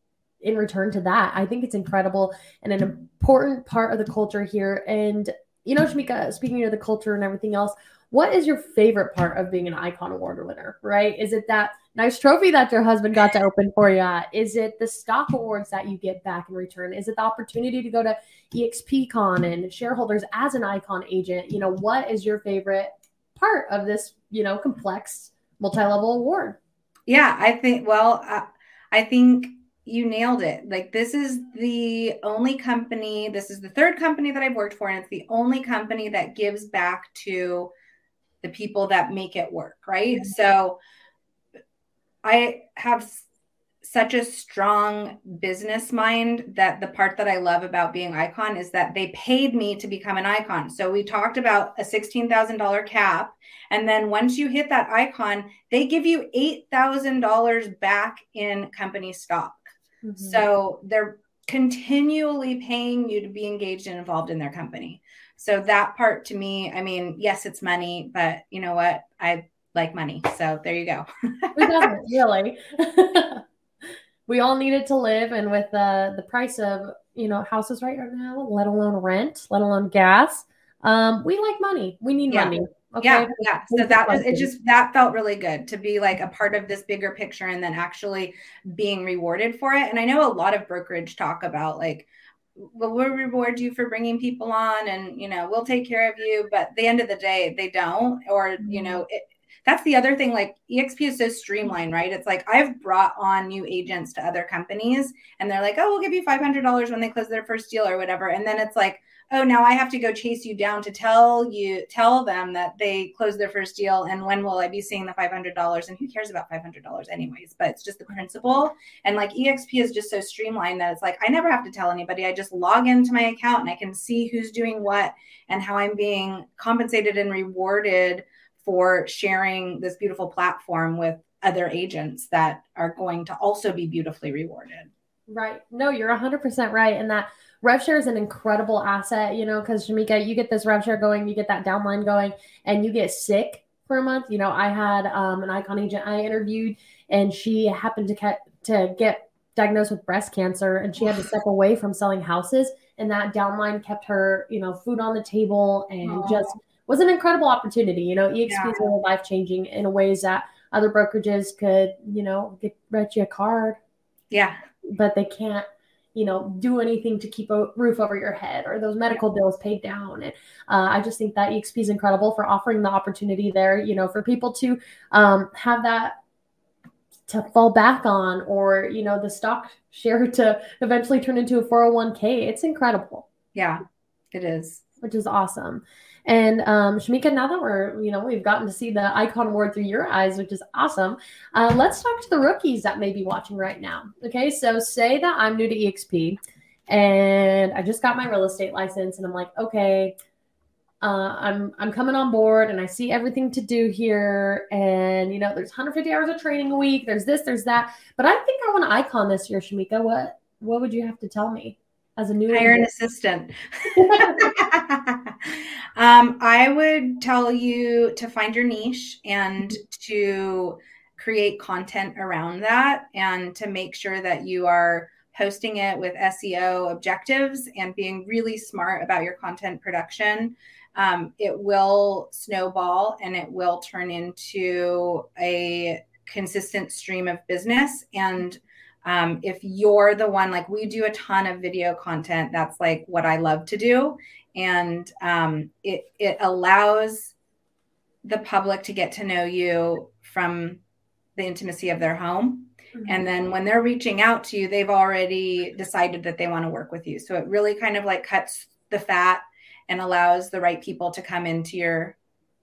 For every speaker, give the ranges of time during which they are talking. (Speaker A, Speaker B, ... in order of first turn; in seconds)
Speaker A: 0.4-26.6, 60.0-60.4, 71.6-73.4, 74.3-84.5, 98.6-99.0, 135.3-163.8, 164.9-176.2, 177.3-183.3, 185.0-200.1, 201.0-212.9, 213.9-214.5, 252.9-253.2
Speaker B: 27.1-37.7, 38.4-40.8, 42.2-43.3, 43.8-59.6, 60.2-72.0, 82.3-134.9, 156.0-156.5, 158.5-158.8, 164.3-164.6, 183.5-183.8, 184.3-184.8, 212.5-247.3, 248.2-250.8, 251.3-262.1